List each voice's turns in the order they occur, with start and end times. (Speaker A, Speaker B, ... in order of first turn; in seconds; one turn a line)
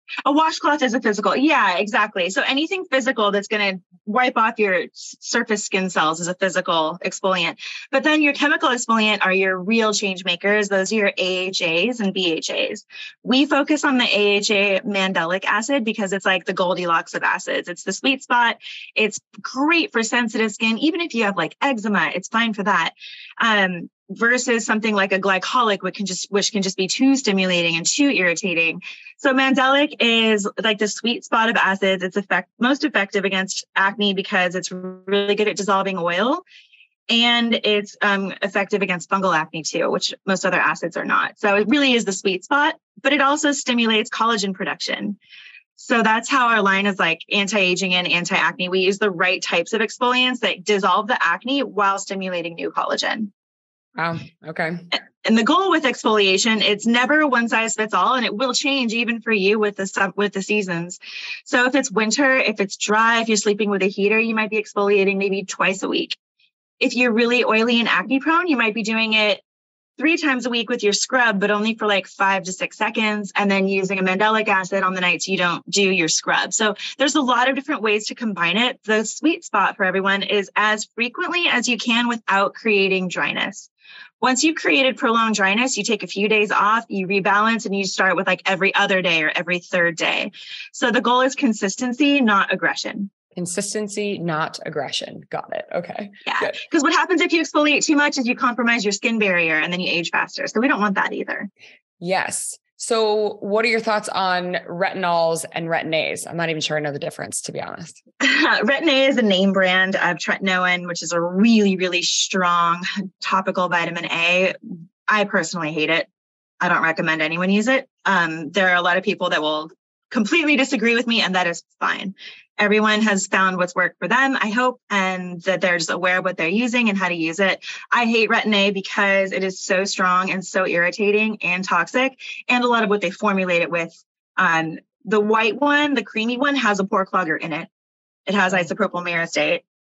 Speaker A: 0.2-36.4
Speaker A: 37.1-45.2
Speaker A: 45.8-53.3
Speaker B: 54.0-54.9
Speaker A: 55.2-66.2
Speaker A: 66.8-69.4
Speaker A: 70.0-83.7
Speaker A: 84.2-93.1
Speaker B: 93.3-96.6
Speaker A: 96.2-101.5
Speaker B: 102.0-108.0
Speaker A: 108.2-114.6
Speaker A: 115.1-116.1
Speaker A: 116.6-137.7
Speaker A: 138.3-139.6